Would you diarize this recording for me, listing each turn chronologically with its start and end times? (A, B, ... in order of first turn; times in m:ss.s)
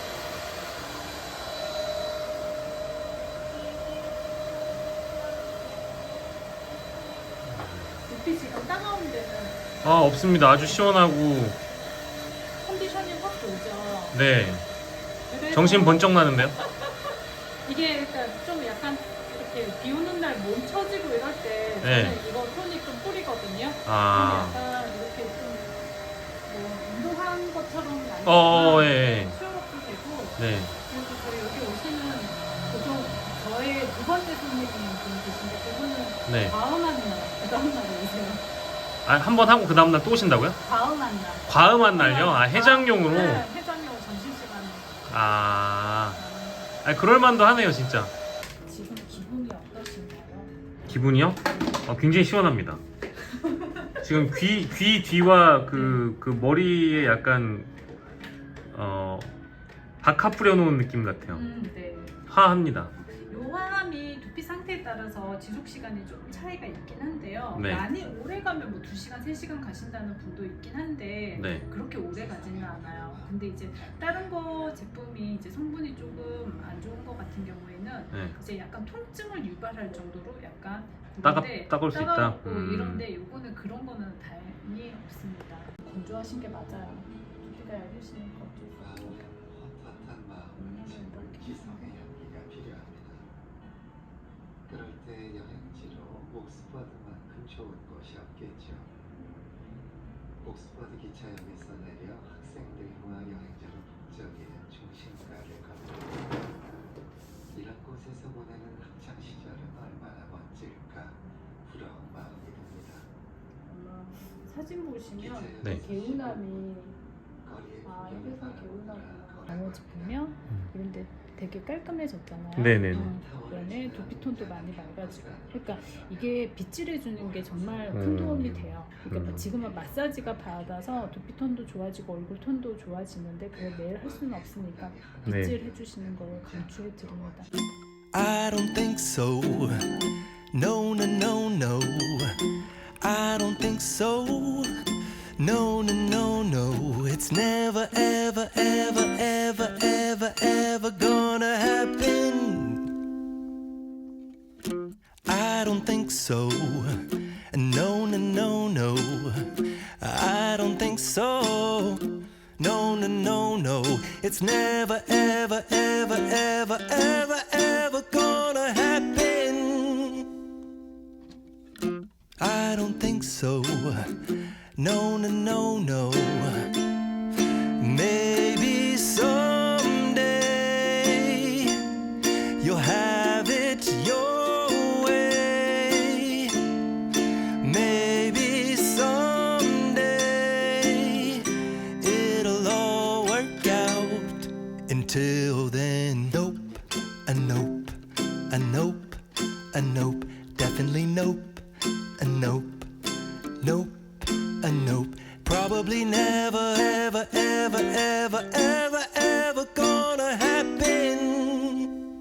0:07.4-0:08.0 A
0:08.0-0:09.9 B
0:09.8-0:11.6 A
0:12.6-0:14.2 B
0:14.1-0:14.6 A
0:15.3-0:25.9 B
0:15.5-0:16.5 A
0:21.8-0:22.2 A
0:23.8-0:24.6 A
0:26.4-0:38.5 B
0:28.2-0:29.4 A
0:30.4-0:30.7 A
0:36.3-0:36.5 A
0:39.0-0:40.6 A
0:40.6-0:45.2 B
0:41.5-0:43.4 A
0:45.1-0:46.2 A
0:46.2-0:47.0 B
0:46.8-0:48.1 A
0:48.6-0:50.5 B
0:50.9-0:52.8 A
0:51.4-0:51.8 B
0:53.3-0:54.4 B
0:54.0-0:57.7 A
0:55.7-0:56.0 B
0:58.7-0:59.3 A
1:00.0-1:01.4 A
1:01.3-1:02.2 B
1:02.3-1:02.9 A
1:03.2-1:29.2 B
1:07.5-1:07.8 A
1:11.3-1:11.6 A
1:12.1-1:13.3 C
1:21.2-1:23.0 A
1:28.8-1:29.2 C
1:29.4-1:30.9 D
1:30.5-1:31.9 B
1:30.9-1:31.8 C
1:31.9-1:33.3 D
1:34.7-1:38.9 D
1:40.4-1:46.3 D
1:47.5-1:51.0 D
1:51.7-1:53.0 D
1:53.6-1:57.0 B
1:55.2-1:56.4 C
1:57.5-2:00.1 C
1:57.8-2:17.5 B
2:02.5-2:03.1 A
2:03.1-2:06.3 C
2:07.2-2:07.9 C
2:07.9-2:09.4 A
2:09.4-2:11.1 C
2:13.6-2:17.3 C
2:15.2-2:15.6 A
2:18.1-2:19.9 C
2:20.5-2:22.4 C
2:23.0-2:24.7 C
2:25.4-2:32.9 C
2:35.3-2:50.3 C
2:52.4-2:54.1 C
2:54.7-2:56.7 C
2:57.8-3:06.7 C
3:07.6-3:22.9 C
3:23.5-3:31.9 C